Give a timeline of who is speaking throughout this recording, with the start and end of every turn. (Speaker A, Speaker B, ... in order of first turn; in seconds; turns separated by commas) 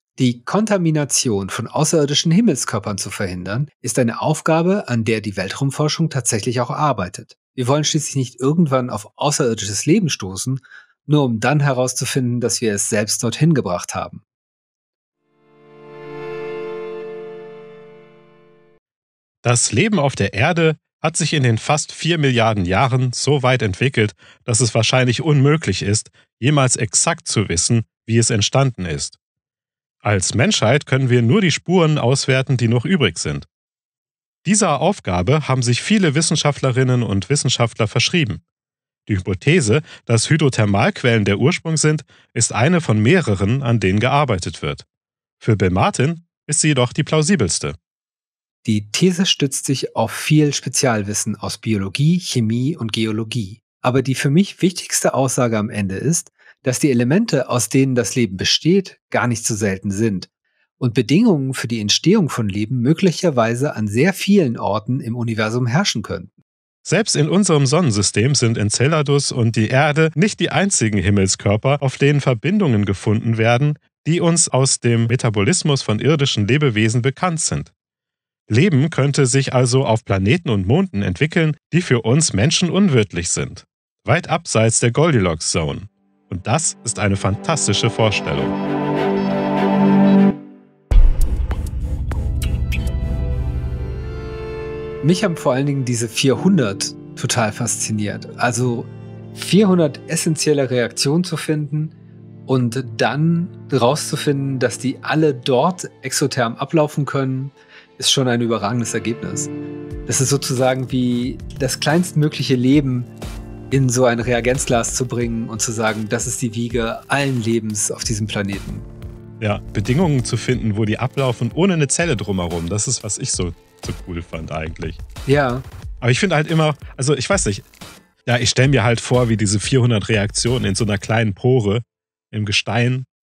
Speaker A: 0.2-14.2, Speaker B: 19.4-29.1, Speaker B: 30.0-33.5, Speaker B: 34.4-38.4, Speaker B: 39.1-44.8, Speaker B: 45.4-47.8, Speaker A: 48.6-66.3, Speaker B: 66.8-77.7, Speaker B: 78.5-88.5, Speaker A: 95.0-101.9, Speaker A: 102.5-109.5, Speaker A: 110.0-113.1, Speaker A: 113.7-118.9, Speaker B: 119.4-125.0, Speaker A: 125.2-125.7, Speaker B: 126.0-127.6, Speaker B: 128.2-133.1